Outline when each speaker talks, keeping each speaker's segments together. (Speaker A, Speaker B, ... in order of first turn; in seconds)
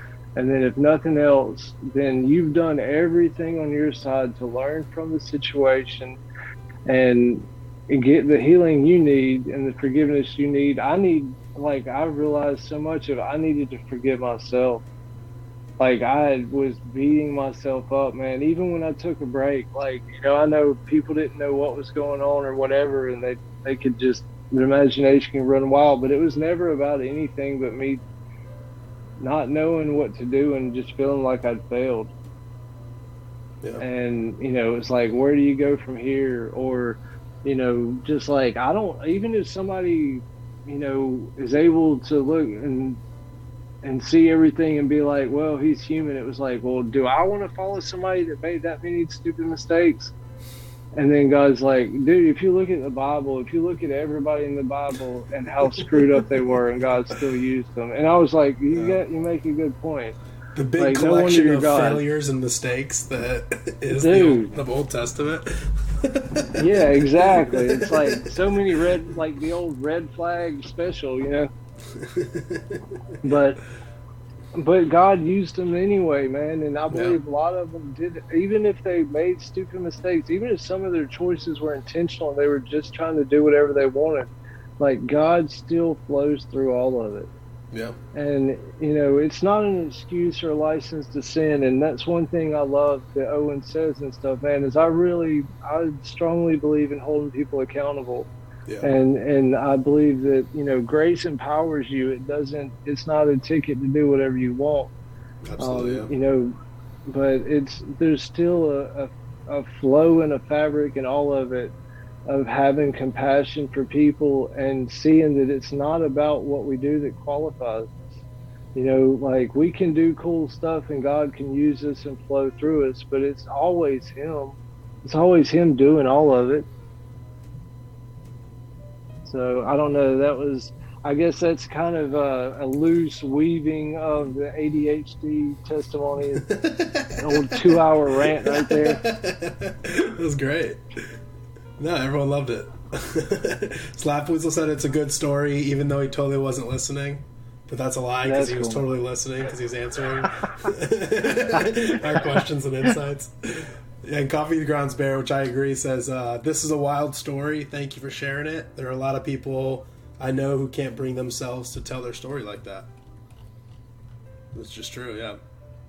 Speaker A: 0.4-6.2, 6.9-14.8, 15.8-28.0, 29.2-32.1, 33.8-43.0, 43.8-50.1, 50.9-60.2, 60.8-62.0, 64.0-64.6, 66.5-71.5, 73.2-73.6, 74.5-84.3, 84.8-87.3, 88.1-98.3, 98.8-104.9, 105.6-111.7, 112.3-118.1, 118.7-126.7, 129.3-136.5, 137.1-139.1, 148.2-148.8, 151.5-152.3
Speaker B: 55.7-56.0, 60.6-68.3, 71.9-73.4, 76.9-77.2, 98.7-98.9, 105.4-106.1, 136.3-141.2, 141.8-162.9, 164.5-165.4